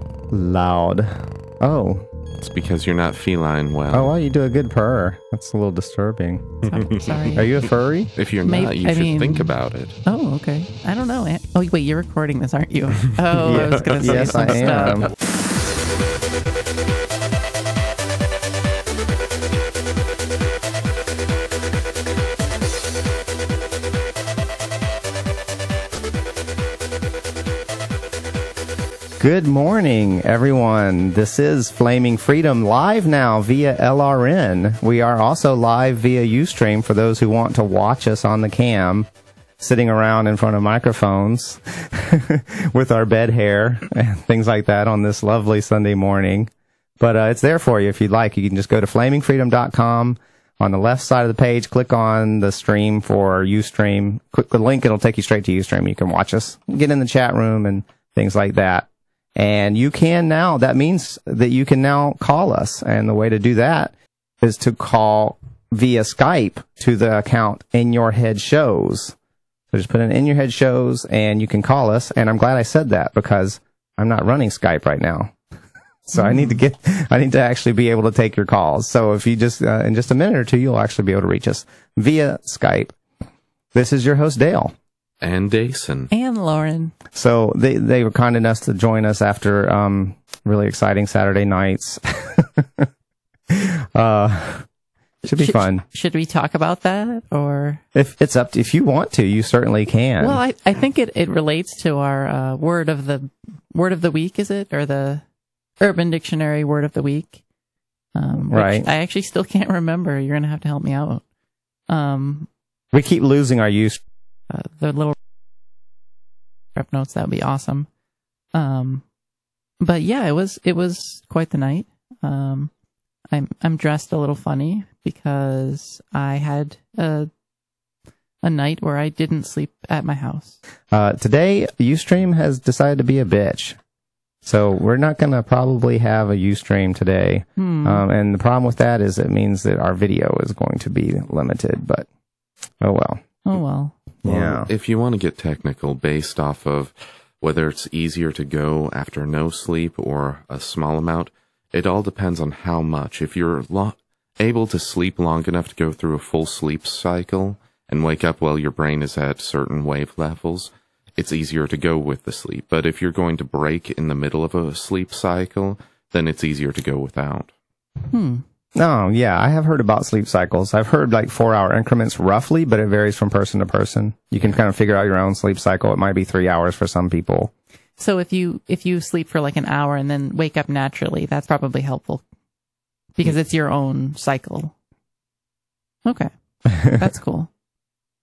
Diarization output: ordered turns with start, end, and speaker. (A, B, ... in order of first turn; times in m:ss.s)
0:00.3-0:02.1 A
0:02.4-0:04.1 B
0:03.9-0:06.7 A
0:06.6-0:07.3 B
0:06.7-0:07.5 C
0:07.3-0:08.1 A
0:08.2-0:10.0 B
0:08.4-0:09.5 C
0:10.0-0:15.1 C
0:13.4-0:15.2 A
0:13.5-0:15.0 B
0:29.2-0:39.1 A
0:39.6-1:09.2 A
1:09.7-1:15.3 A
1:16.0-1:23.0 A
1:16.1-1:16.6 C
1:23.7-1:24.7 A
1:25.2-1:26.1 B
1:26.1-1:26.9 C
1:27.1-1:32.9 A
1:33.5-1:34.7 A
1:35.2-1:35.8 A
1:35.2-1:37.8 C
1:37.9-1:40.4 A
1:40.2-1:45.2 C
1:45.8-1:47.4 C
1:48.1-1:51.2 C
1:48.5-1:48.9 A
1:51.9-1:52.5 C
1:52.9-1:54.0 A
1:54.5-1:55.1 C
1:56.7-1:57.9 C
1:58.5-1:59.0 C
1:59.8-2:02.7 C
2:03.3-2:07.3 C
2:08.4-2:10.6 C
2:10.9-2:13.8 A
2:14.4-2:22.1 A
2:17.6-2:18.0 C
2:22.8-2:23.2 A
2:23.4-2:24.0 C
2:24.2-2:24.7 A
2:24.2-2:47.5 B
2:48.1-2:48.4 C
2:48.7-2:57.5 A
2:58.0-3:02.2 C
3:03.2-3:04.7 C
3:06.0-3:07.5 C